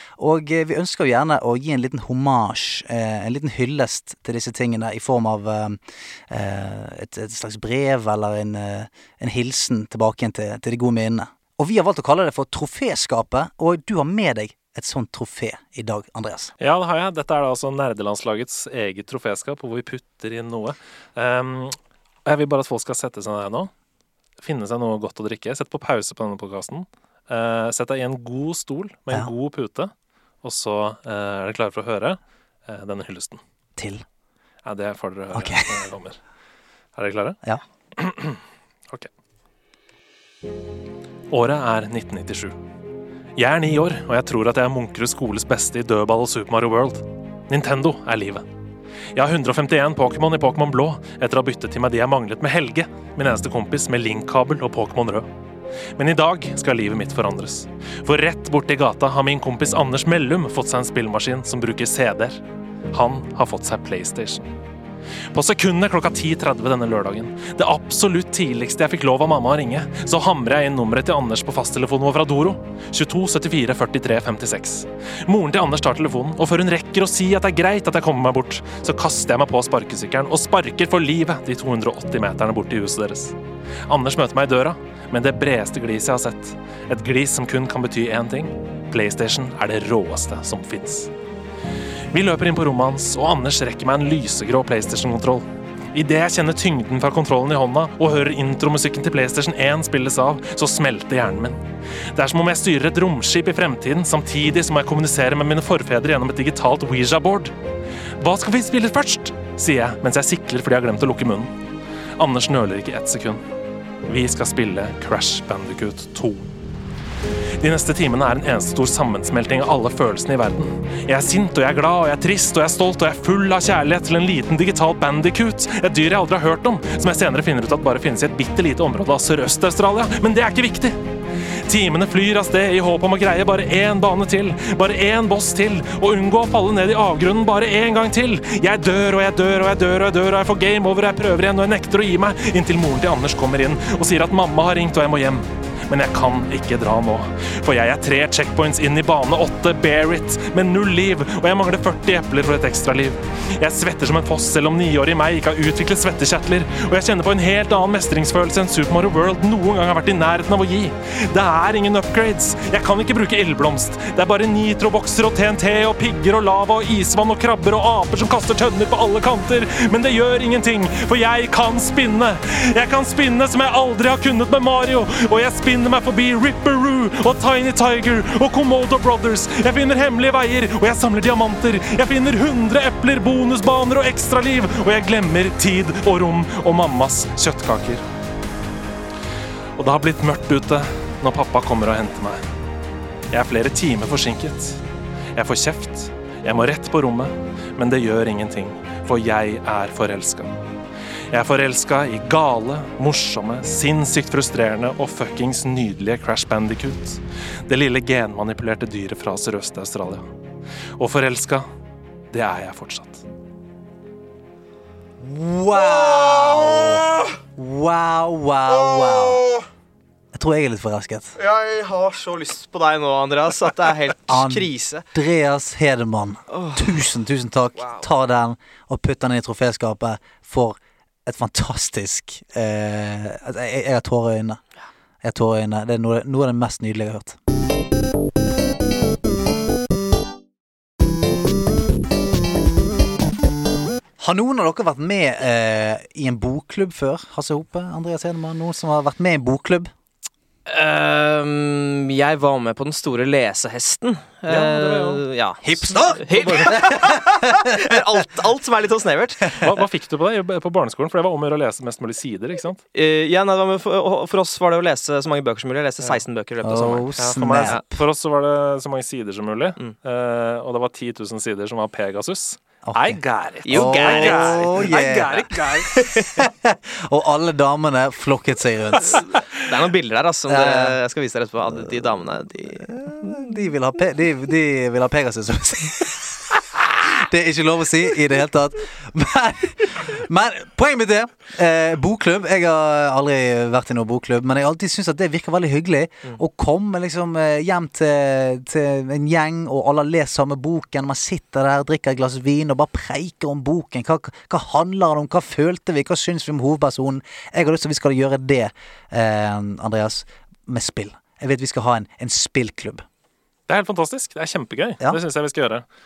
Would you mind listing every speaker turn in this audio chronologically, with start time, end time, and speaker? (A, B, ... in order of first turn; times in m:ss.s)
0:00.2-0:16.5 A
0:16.6-0:23.7 B
0:24.4-0:29.9 B
0:30.4-0:33.4 B
0:33.8-0:34.0 A
0:34.6-0:36.2 B
0:35.3-0:35.8 A
0:37.0-0:37.4 B
0:38.0-0:39.1 B
0:41.3-0:42.6 B
0:43.4-0:48.4 B
0:49.1-0:55.3 B
0:56.0-1:04.5 B
1:05.3-1:23.4 B
1:23.9-1:31.1 B
1:32.1-1:47.5 B
1:48.2-1:51.5 B
1:52.2-1:53.4 B
1:54.1-1:56.5 B
1:57.6-2:11.0 B
2:11.7-3:08.0 B
3:09.8-3:12.4 B
3:13.3-3:14.8 B
3:15.4-3:20.6 B
3:21.3-3:30.3 B
3:31.0-3:31.7 B
3:32.3-3:33.2 B
3:35.2-3:39.5 A
3:36.1-3:37.0 C
3:39.0-3:39.6 C
3:40.3-3:41.4 A
3:41.4-3:45.1 C
3:44.3-3:54.6 A
3:46.5-3:46.9 C
3:47.8-3:48.1 C
3:55.2-3:57.4 A
4:04.2-4:09.9 A
4:10.7-4:19.7 C
4:14.5-4:15.2 B
4:15.6-4:17.9 A
4:16.3-4:16.8 B
4:19.6-4:22.8 B
4:22.9-4:27.1 C
4:26.6-4:27.8 A
4:27.2-4:36.0 B
4:32.8-4:39.2 A
4:33.6-4:35.0 C
4:36.0-4:36.4 C
4:39.0-4:43.6 C
4:40.5-4:41.0 A
4:42.9-5:13.0 A
5:13.7-5:15.8 B